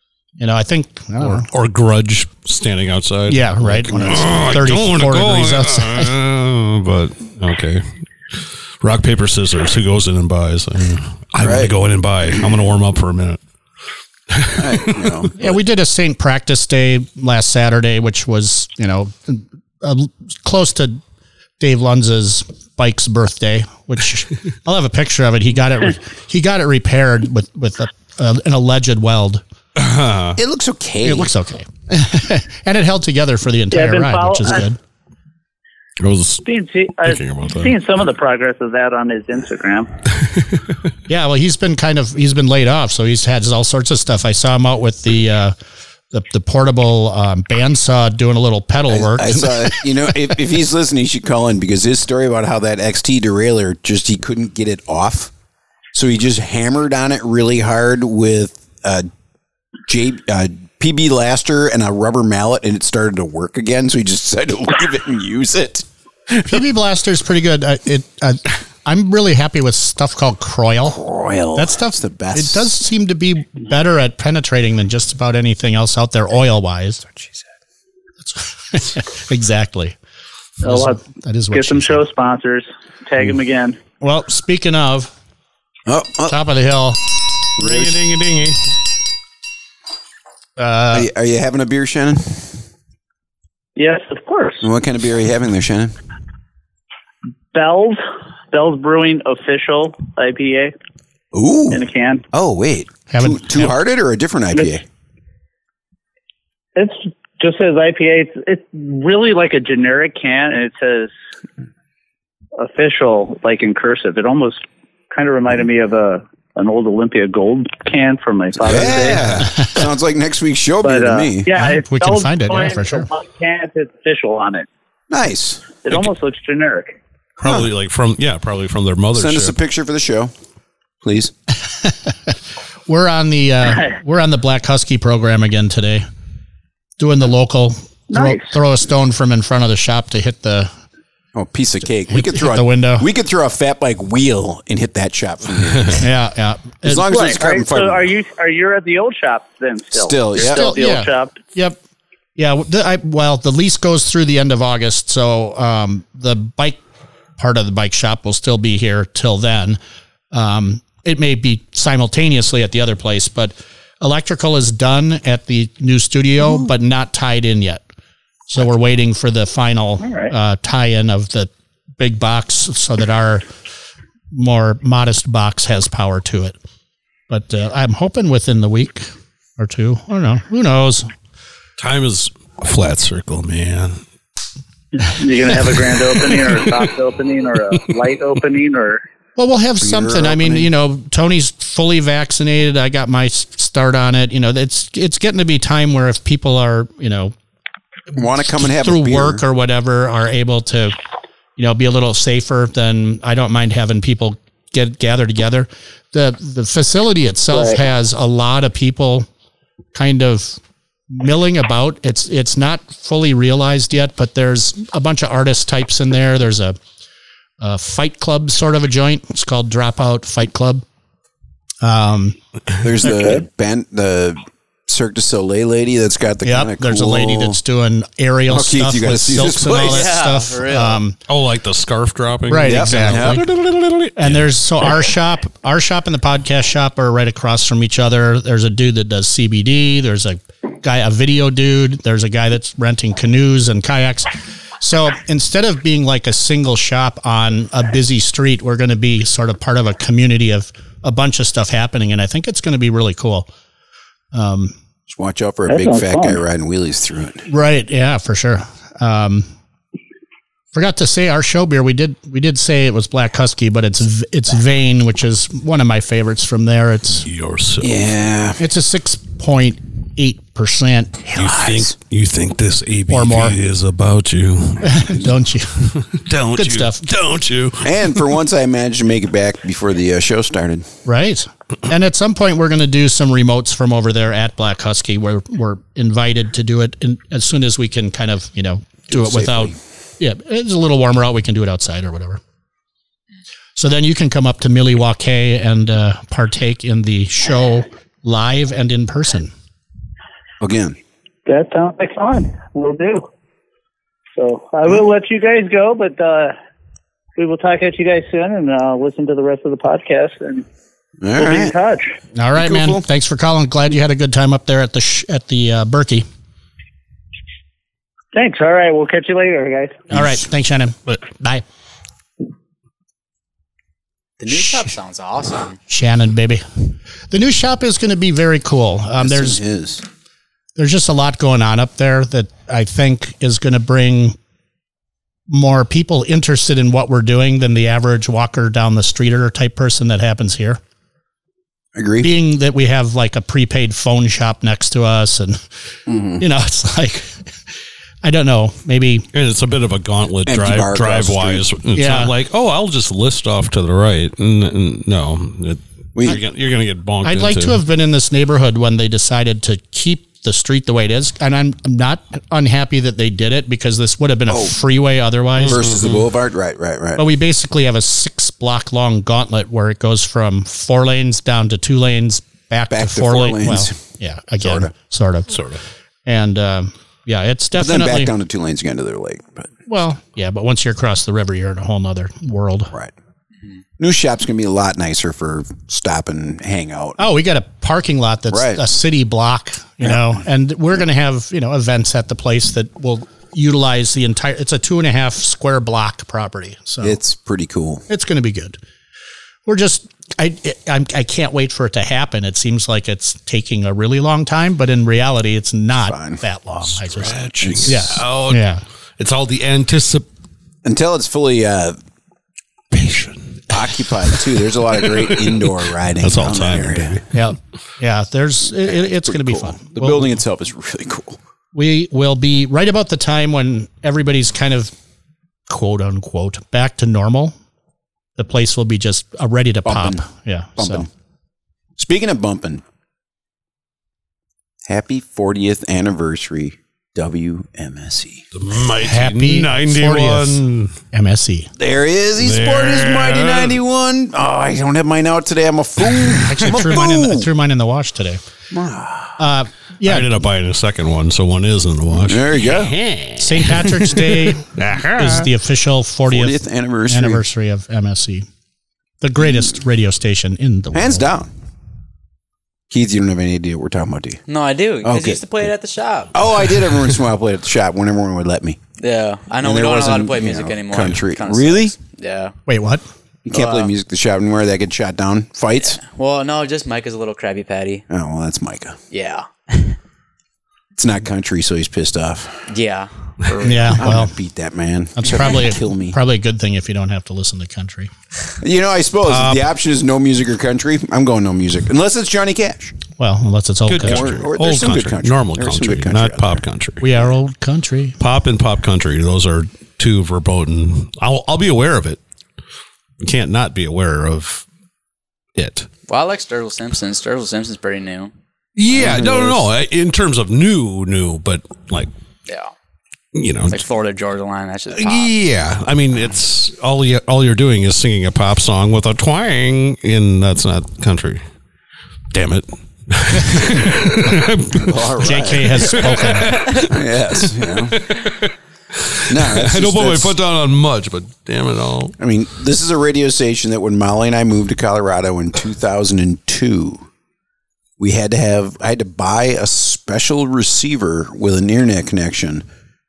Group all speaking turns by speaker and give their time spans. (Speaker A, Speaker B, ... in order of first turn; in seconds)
Speaker A: 0.4-1.5, 3.3-6.1, 15.4-21.0, 21.6-29.4, 31.0-34.8, 41.1-45.5, 46.1-49.9, 66.4-71.0, 71.5-77.0, 78.2-80.0, 80.6-82.0, 84.0-85.1, 86.3-87.1, 90.6-91.1, 103.1-103.7, 121.5-123.1, 131.7-132.3, 132.9-136.1, 137.0-140.7, 142.1-143.1, 146.0-147.0, 150.4-151.8, 152.3-156.8, 157.4-159.8, 160.3-167.8, 168.5-173.4, 174.3-176.6, 177.3-181.1, 189.4-197.3, 198.5-200.9, 201.6-209.3, 209.9-210.6, 211.1-216.8, 217.6-220.8, 221.8-222.4, 223.0-223.3, 226.4-231.2, 232.5-233.4, 234.2-253.5, 254.3-254.7, 257.5-259.5, 260.7-267.3, 268.6-271.4, 273.1-273.6, 274.8-275.9, 276.5-277.0, 281.0-292.4, 293.8-299.5, 312.3-316.2, 320.1-321.6, 325.9-326.6, 327.3-329.6, 330.8-334.4, 335.5-340.8, 342.2-345.6, 346.4-347.4, 348.2-349.3, 351.9-352.3, 357.2-365.8, 367.2-375.6, 376.2-378.3, 379.9-382.9, 387.2-397.2, 398.1-398.8, 399.6-408.8, 417.3-420.3, 421.7-424.9, 425.7-427.5, 428.4-431.1, 439.0-441.7, 446.4-448.4, 449.4-450.4, 453.4-456.6, 457.1-458.5, 459.2-461.2, 472.7-473.0, 483.6-484.3, 485.2-488.1, 493.2-494.3, 497.0-498.2, 525.2-526.7
Speaker B: 1.2-7.8, 8.4-13.4, 14.3-15.2, 29.8-30.4, 36.0-36.4, 37.0-37.7, 40.2-40.7, 87.6-88.6, 127.4-129.6, 181.8-184.0, 186.3-186.6, 231.3-234.5, 267.2-268.0, 271.3-275.2, 275.9-278.2, 349.3-357.8, 365.6-366.3, 375.5-375.8, 406.9-408.6, 409.2-410.3, 412.9-417.3, 438.5-441.0, 442.4-443.8, 450.0-455.5, 489.2-489.7, 493.9-497.1, 498.2-502.2, 503.2-504.6, 505.5-505.9, 508.8-512.1, 513.3-513.8, 514.9-521.4, 522.3-525.0, 525.9-532.1
Speaker C: 11.4-11.7, 14.5-15.6, 30.4-31.3, 48.9-55.3, 55.9-59.1, 59.9-66.6, 70.9-72.7, 85.8-86.4, 87.6-87.9, 90.9-92.6, 94.6-95.9, 101.3-104.8, 118.6-121.5, 125.1-125.7, 129.1-130.3, 131.0-131.3, 141.3-146.1, 146.8-148.1, 149.9-150.7, 189.8-190.7, 198.1-199.4, 222.8-227.6, 228.5-230.1, 232.6-233.4, 255.1-257.5, 267.8-268.6, 271.4-271.9, 277.8-280.9, 289.1-289.8, 300.6-300.9, 311.2-311.7, 312.5-313.0, 329.2-330.0, 341.9-342.3, 346.1-346.4, 350.4-351.6, 364.5-364.8, 365.6-367.2, 372.9-374.0, 374.6-374.9, 377.7-379.7, 384.0-387.2, 388.5-388.8, 390.0-390.3, 397.0-398.1, 406.0-406.4, 407.6-408.2, 410.8-412.0, 413.7-417.2, 418.9-421.4, 429.8-430.2, 430.8-431.1, 432.0-432.8, 434.9-438.4, 441.8-447.5, 448.7-449.4, 452.1-453.0, 456.3-457.4, 460.9-461.5, 462.9-464.4, 465.0-465.6, 466.3-468.8, 469.6-471.9, 473.4-476.0, 478.1-479.0, 480.9-482.7, 483.9-486.2, 488.6-493.0, 494.0-496.6, 508.9-509.7, 524.7-526.0, 526.8-528.0, 529.3-530.4, 532.2-537.0, 538.0-542.6
Speaker D: 33.7-34.6, 36.4-39.9, 80.6-81.0, 81.5-83.8, 93.8-94.7, 97.5-98.0, 98.5-100.7, 101.7-102.2, 106.8-111.1, 112.6-119.4, 120.8-124.7, 125.8-127.0, 138.1-138.6, 147.1-151.3, 170.0-170.3, 184.9-189.0, 207.5-207.8, 255.7-256.4, 301.4-303.3, 304.4-306.5, 307.4-310.6, 311.3-312.2, 318.3-320.1
Speaker E: 229.7-231.0, 324.4-325.8, 464.5-466.3, 469.0-472.5, 473.5-473.9, 475.8-478.0, 479.1-480.0, 482.7-484.1, 506.1-508.3, 512.5-512.7, 513.7-515.3